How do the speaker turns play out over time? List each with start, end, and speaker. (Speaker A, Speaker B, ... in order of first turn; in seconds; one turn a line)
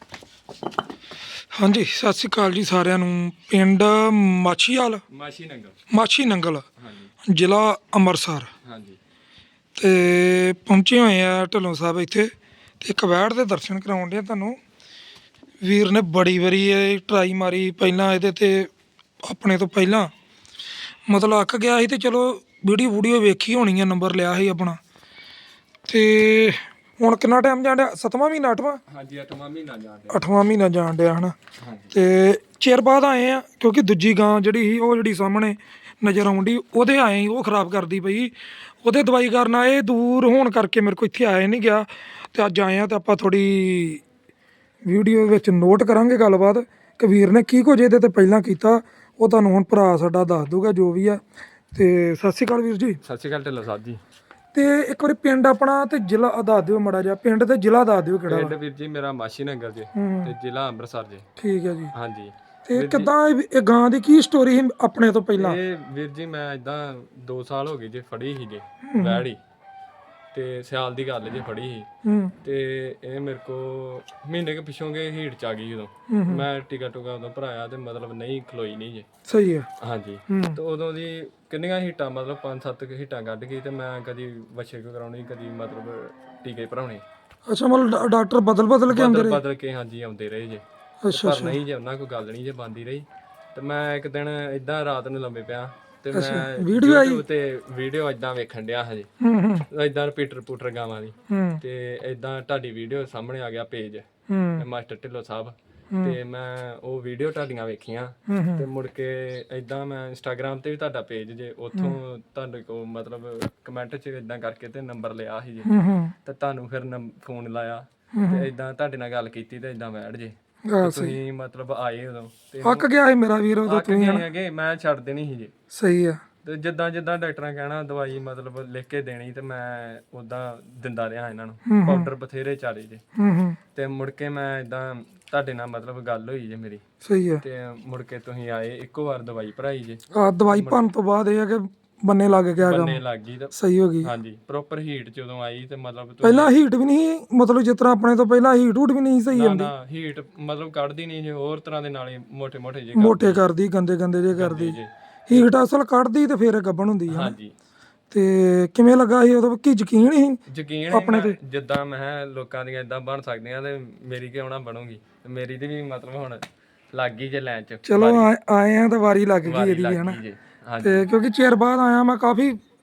Speaker A: 1.5-5.0
Speaker B: 5.1-5.8
Speaker A: 5.9-6.7
Speaker B: 6.8-7.1
Speaker A: 7.2-8.5
Speaker B: 8.6-9.0
Speaker A: 9.8-14.6
Speaker A: 15.6-18.7
Speaker A: 19.2-20.1
Speaker A: 21.1-24.8
Speaker A: 25.9-28.8
Speaker B: 28.9-30.2
Speaker A: 30.1-31.4
Speaker B: 31.6-32.0
Speaker A: 31.9-44.0
Speaker A: 44.9-51.2
Speaker A: 51.7-53.0
Speaker B: 53.0-54.0
Speaker A: 54.5-58.5
Speaker B: 58.3-61.3
Speaker A: 60.0-60.3
Speaker A: 61.4-61.9
Speaker B: 61.9-63.1
Speaker A: 62.7-65.6
Speaker B: 65.4-69.4
Speaker A: 68.8-69.3
Speaker B: 70.3-71.9
Speaker A: 72.0-72.3
Speaker B: 72.4-79.1
Speaker A: 76.1-76.5
Speaker A: 79.3-79.7
Speaker B: 79.8-87.0
Speaker A: 80.3-80.6
Speaker A: 87.5-89.4
Speaker B: 88.9-99.1
Speaker A: 91.0-91.6
Speaker A: 96.1-97.2
Speaker A: 99.2-99.7
Speaker B: 99.7-104.0
Speaker A: 101.3-101.6
Speaker A: 104.3-104.6
Speaker B: 104.6-115.7
Speaker A: 108.3-108.7
Speaker A: 115.7-116.1
Speaker B: 116.2-122.9
Speaker A: 118.1-118.5
Speaker A: 120.7-121.2
Speaker A: 122.6-124.2
Speaker B: 123.7-125.5
Speaker A: 125.7-126.2
Speaker B: 126.4-133.0
Speaker A: 131.7-132.1
Speaker A: 133.2-133.6
Speaker B: 133.8-136.8
Speaker A: 137.0-137.4
Speaker B: 137.4-140.0
Speaker A: 140.1-143.0
Speaker B: 140.5-140.9
Speaker B: 142.6-146.5
Speaker A: 143.5-144.1
Speaker A: 146.2-149.7
Speaker B: 149.3-153.4
Speaker A: 153.0-154.8
Speaker B: 154.3-155.5
Speaker A: 155.3-157.3
Speaker B: 157.1-157.5
Speaker A: 158.1-160.4
Speaker B: 160.5-168.3
Speaker A: 160.9-161.4
Speaker A: 167.9-170.2
Speaker B: 169.4-171.1
Speaker A: 170.8-172.6